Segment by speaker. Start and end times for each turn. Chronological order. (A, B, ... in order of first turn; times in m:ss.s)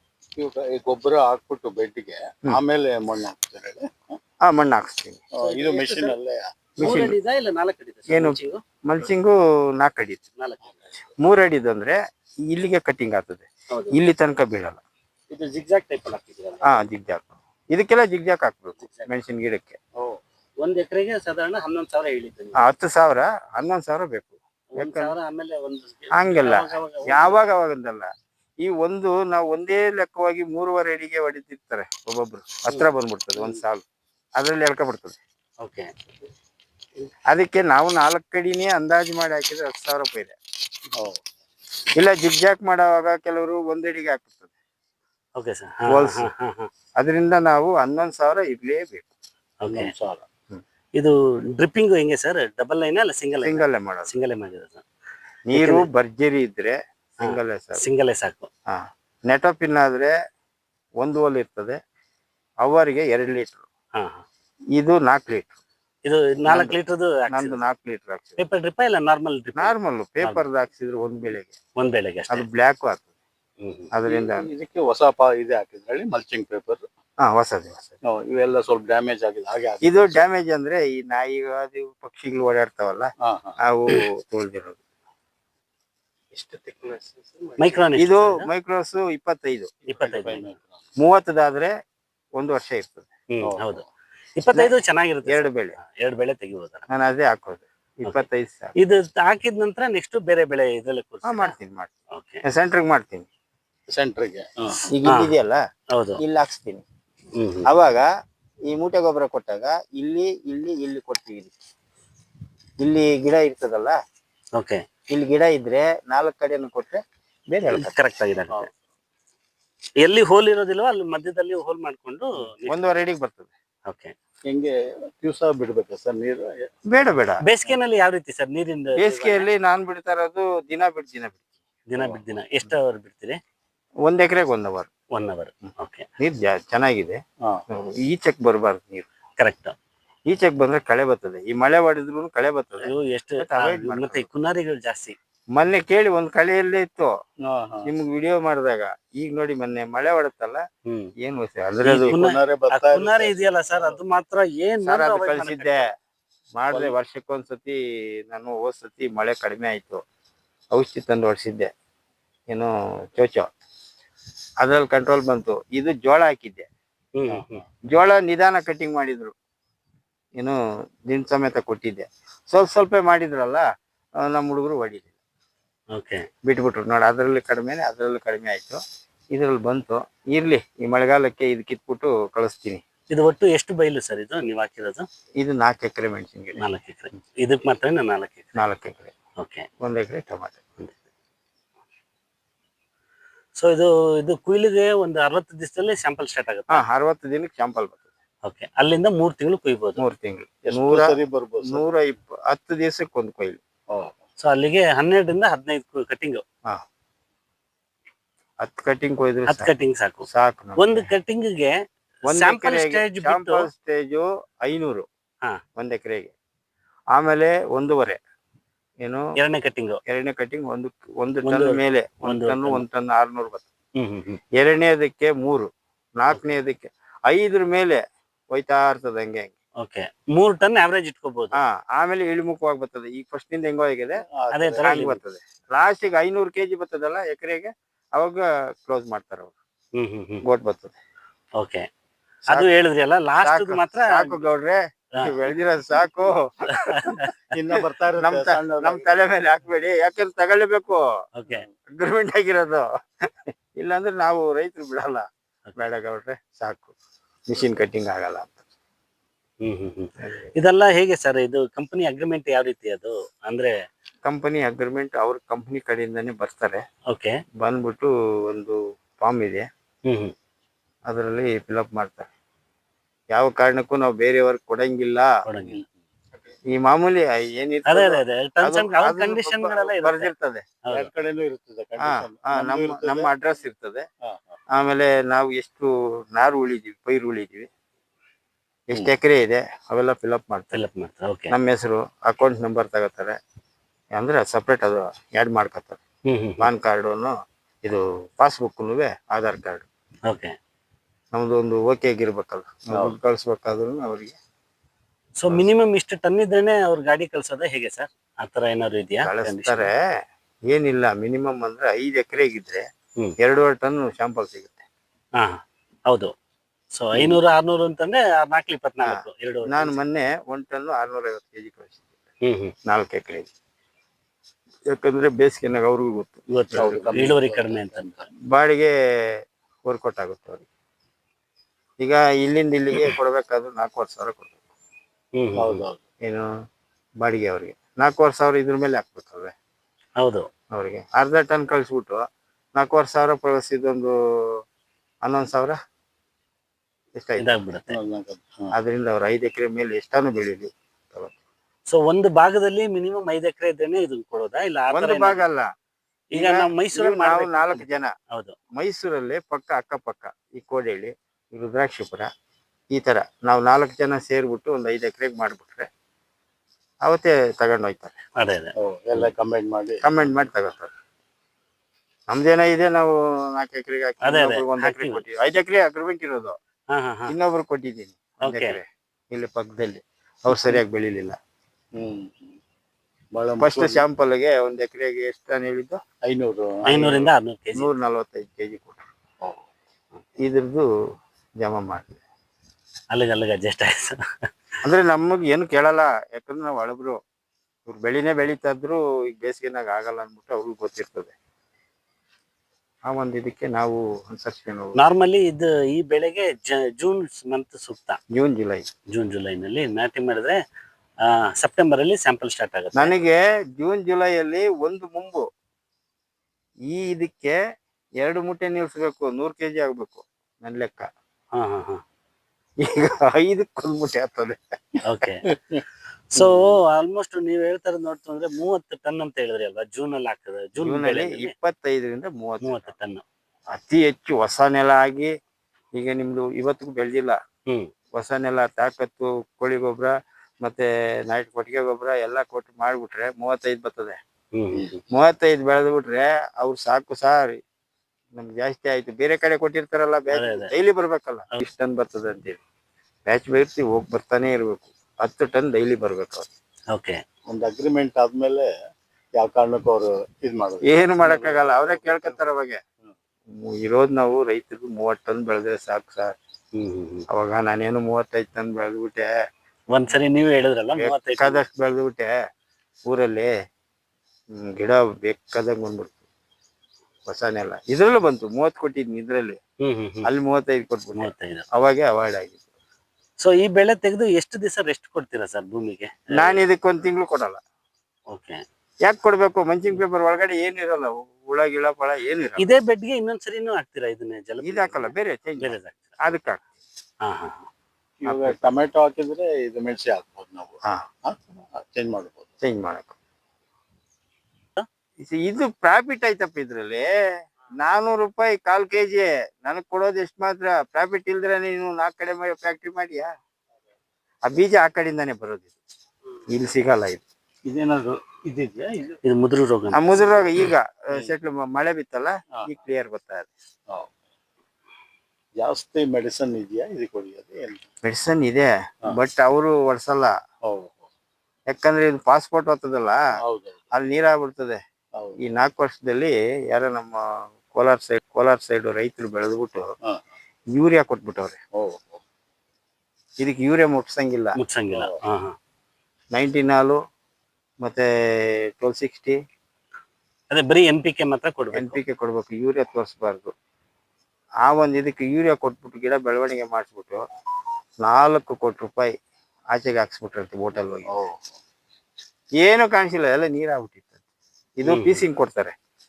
0:00.4-0:04.2 A
0:04.4-0:05.2 B
0:05.4-0:07.0 A
0:05.4-0:06.2 C
0:06.8-0:07.2 B
0:06.8-0:08.6 C
0:08.1-0:10.2 B
0:10.4-0:11.0 C
0:11.2-0:12.0 B
0:12.5-0:14.8 B
0:13.7-0:14.0 C
0:15.3-0:16.7 C
0:16.7-0:19.8 B
0:18.8-0:19.1 C
0:20.6-0:22.6 C
0:22.6-0:25.2 B
0:24.7-0:27.4 C
0:26.1-0:28.1 B
0:28.6-0:33.8 B
0:34.4-0:35.2 B
0:35.6-0:35.9 C
0:37.3-0:40.3 B
0:40.9-0:41.2 A
0:42.0-0:44.5 B
0:45.4-0:46.7 C
0:45.9-0:46.3 B
0:47.0-0:49.1 B
0:49.6-0:49.9 C
0:49.7-0:50.2 A
0:51.0-0:54.8 C
0:53.4-0:54.1 B
0:55.5-0:57.8 B
0:55.5-0:55.9 C
0:57.2-0:58.5 C
0:58.7-1:00.1 B
1:01.0-1:01.8 B
1:02.6-1:03.7 B
1:04.0-1:04.2 C
1:04.8-1:05.6 B
1:06.1-1:07.6 C
1:06.5-1:06.8 B
1:07.3-1:08.4 B
1:08.4-1:10.4 C
1:09.6-1:11.6 B
1:11.8-1:12.4 C
1:12.3-1:13.1 B
1:13.6-1:13.9 C
1:13.9-1:14.5 B
1:14.1-1:16.8 A
1:17.2-1:18.0 B
1:18.0-1:20.2 A
1:19.8-1:23.1 B
1:23.2-1:23.6 A
1:23.6-1:24.8 B
1:26.3-1:27.8 A
1:27.6-1:28.5 C
1:28.0-1:29.7 B
1:29.9-1:30.6 C
1:29.9-1:30.8 A
1:31.0-1:31.7 B
1:32.4-1:33.1 B
1:33.3-1:33.9 C
1:33.4-1:33.8 A
1:34.4-1:36.9 C
1:34.4-1:34.8 B
1:35.3-1:35.8 B
1:36.9-1:38.7 B
1:38.8-1:41.5 C
1:41.2-1:41.9 B
1:42.1-1:42.4 C
1:42.4-1:43.3 B
1:43.9-1:44.8 A
1:44.9-1:45.6 B
1:45.0-1:45.3 C
1:45.9-1:46.2 C
1:46.2-1:46.8 B
1:47.4-1:47.7 C
1:47.7-1:48.1 B
1:48.7-1:51.6 B
1:52.8-1:54.0 B
1:54.6-1:54.8 C
1:55.1-1:57.9 B
1:57.7-1:58.7 C
2:00.0-2:02.8 C
2:02.7-2:03.5 B
2:03.9-2:04.1 C
2:04.5-2:06.7 A
2:06.9-2:07.4 B
2:07.4-2:09.5 C
2:09.0-2:11.4 B
2:11.9-2:13.4 C
2:14.0-2:14.9 B
2:15.1-2:16.1 C
2:16.2-2:17.2 B
2:17.7-2:19.1 B
2:19.4-2:19.8 C
2:20.3-2:22.9 B
2:22.8-2:25.2 C
2:23.4-2:24.3 B
2:25.5-2:27.1 B
2:27.5-2:27.9 A
2:27.8-2:30.6 B
2:31.2-2:32.3 B
2:31.8-2:35.9 C
2:32.1-2:33.4 A
2:34.8-2:35.9 B
2:36.6-2:40.0 B
2:40.7-2:41.7 B
2:42.5-2:43.5 B
2:44.6-2:46.7 B
2:47.2-2:47.6 C
2:47.9-2:49.3 B
2:51.1-2:53.7 B
2:54.2-2:55.1 B
2:55.9-2:56.3 C
2:56.4-2:58.8 B
2:59.3-3:02.8 B
3:03.1-3:05.1 C
3:05.4-3:06.6 B
3:06.6-3:08.6 C
3:08.6-3:09.1 B
3:09.4-3:09.7 C
3:09.8-3:10.6 B
3:13.6-3:16.8 C
3:16.7-3:18.1 B
3:18.4-3:20.0 C
3:20.0-3:23.6 B
3:20.7-3:21.8 A
3:23.9-3:24.2 A
3:24.4-3:26.4 C
3:28.6-3:29.7 B
3:29.5-3:30.3 C
3:30.3-3:31.1 B
3:30.8-3:31.8 C
3:32.3-3:35.1 B
3:32.3-3:33.7 C
3:35.8-3:36.3 B
3:37.2-3:38.2 B
3:39.0-3:39.3 B
3:39.4-3:40.0 C
3:40.1-3:43.7 B
3:41.4-3:42.8 C
3:44.0-3:44.4 C
3:44.6-3:49.6 B
3:49.8-3:51.6 C
3:51.6-3:54.2 B
3:54.3-3:55.0 A
3:54.5-3:55.2 C
3:54.8-3:59.5 B
4:00.0-4:00.4 C
4:00.4-4:01.0 B
4:01.6-4:01.9 C
4:02.5-4:04.4 C
4:03.4-4:07.1 B
4:06.7-4:07.3 C
4:07.5-4:09.2 A
4:08.2-4:11.0 B
4:11.4-4:11.6 C
4:11.9-4:12.9 B
4:13.7-4:16.9 B
4:17.5-4:18.6 B
4:19.6-4:23.7 C
4:20.2-4:20.5 B
4:24.2-4:26.8 B
4:27.1-4:27.4 C
4:27.6-4:29.7 B
4:30.1-4:30.3 C
4:31.1-4:32.3 B
4:33.3-4:35.3 B
4:35.5-4:35.8 C
4:36.7-4:40.7 B
4:37.9-4:40.3 C
4:40.9-4:43.3 A
4:42.0-4:44.1 B
4:44.2-4:44.6 A
4:44.7-4:47.7 B
4:48.9-4:50.8 B
4:50.7-4:51.5 C
4:51.5-4:53.4 B
4:54.2-4:56.0 B
4:56.3-4:56.7 C
4:56.6-4:59.8 B
5:00.3-5:00.6 C
5:01.3-5:04.4 B
5:05.4-5:09.9 C
5:09.2-5:10.0 B
5:10.7-5:12.8 B
5:13.4-5:14.8 B
5:15.4-5:16.3 C
5:16.9-5:20.0 C
5:17.2-5:17.4 B
5:19.0-5:22.1 B
5:22.4-5:22.7 C
5:22.9-5:23.5 B
5:24.9-5:27.3 B
5:26.5-5:28.1 C
5:26.7-5:28.3 A
5:28.5-5:28.9 B
5:29.8-5:30.6 B
5:32.0-5:34.5 B
5:35.4-5:35.8 C
5:35.6-5:36.0 A
5:36.2-5:36.5 B
5:37.2-5:39.5 B
5:40.2-5:40.5 C
5:40.7-5:42.2 B
5:42.8-5:44.1 B
5:45.2-5:45.8 B
5:47.2-5:47.5 B
5:47.4-5:48.0 C
5:47.9-5:48.7 A
5:48.7-5:51.4 B
5:51.9-5:55.4 C
5:54.9-5:55.7 B
5:56.3-5:58.6 C
5:56.4-5:58.1 B
5:58.8-6:02.3 B
6:02.9-6:05.9 B
6:07.0-6:08.2 B
6:08.4-6:09.3 C
6:08.8-6:10.0 A
6:10.0-6:10.9 B
6:12.3-6:16.6 B
6:14.2-6:15.2 C
6:16.9-6:17.3 C
6:17.3-6:21.4 B
6:18.4-6:18.8 C
6:22.0-6:22.6 A
6:23.3-6:24.0 A
6:23.6-6:26.0 B
6:26.2-6:27.3 A
6:26.9-6:27.9 C
6:27.8-6:29.0 B
6:30.4-6:30.9 B
6:31.6-6:32.2 B
6:33.1-6:34.2 C
6:34.8-6:37.2 B
6:37.9-6:41.3 B
6:43.1-6:45.0 B
6:45.0-6:48.2 C
6:48.3-6:48.9 B
6:49.1-6:50.6 C
6:51.3-6:53.2 C
6:53.0-6:55.5 B
6:56.9-6:57.6 B
6:58.2-7:01.1 B
7:01.6-7:02.0 C
7:02.8-7:04.6 B
7:05.0-7:05.5 C
7:06.3-7:11.5 C
7:10.8-7:12.9 B
7:12.6-7:13.2 C
7:13.7-7:15.3 B
7:16.0-7:17.4 B
7:18.1-7:24.2 B
7:24.5-7:24.9 C
7:25.1-7:27.6 B
7:28.3-7:32.6 B
7:30.3-7:30.7 C
7:33.3-7:36.5 B
7:36.9-7:37.2 C
7:37.5-7:38.7 A
7:39.4-7:42.3 A
7:40.9-7:42.8 B
7:43.5-7:46.4 B
7:46.8-7:47.3 C
7:47.3-7:49.3 B
7:49.9-7:51.6 C
7:51.0-7:52.3 B
7:53.1-7:53.5 B
7:54.6-7:56.2 B
7:57.3-7:59.6 B
7:59.8-8:00.3 C
8:00.3-8:02.6 B
8:01.2-8:01.6 C
8:03.4-8:06.6 C
8:06.3-8:07.6 B
8:08.3-8:08.6 C
8:09.0-8:12.7 B
8:12.6-8:16.2 C
8:14.6-8:16.6 B
8:17.2-8:17.7 C
8:18.2-8:22.5 A
8:18.3-8:18.7 B
8:22.6-8:23.2 B
8:25.2-8:27.1 B
8:27.8-8:33.3 B
8:34.4-8:35.7 B
8:36.5-8:37.2 B
8:37.6-8:39.2 A
8:39.2-8:40.7 C
8:39.9-8:43.5 B
8:43.9-8:44.1 A
8:45.6-8:47.8 A
8:48.0-8:50.3 B
8:50.6-8:51.1 A
8:51.7-8:53.2 B
8:53.4-8:53.8 A
8:53.9-8:54.8 B
8:55.4-8:59.8 B
9:00.0-9:00.3 A
9:00.7-9:01.6 B
9:01.8-9:02.2 A
9:03.4-9:04.6 B
9:04.6-9:05.6 C
9:04.9-9:05.2 A
9:06.3-9:07.0 B
9:07.8-9:09.4 B
9:10.5-9:12.0 C
9:11.7-9:13.5 B
9:14.6-9:17.2 B
9:18.0-9:19.1 B
9:19.7-9:21.1 B
9:21.1-9:21.6 A
9:22.6-9:24.1 B
9:24.8-9:25.7 B
9:24.8-9:25.2 C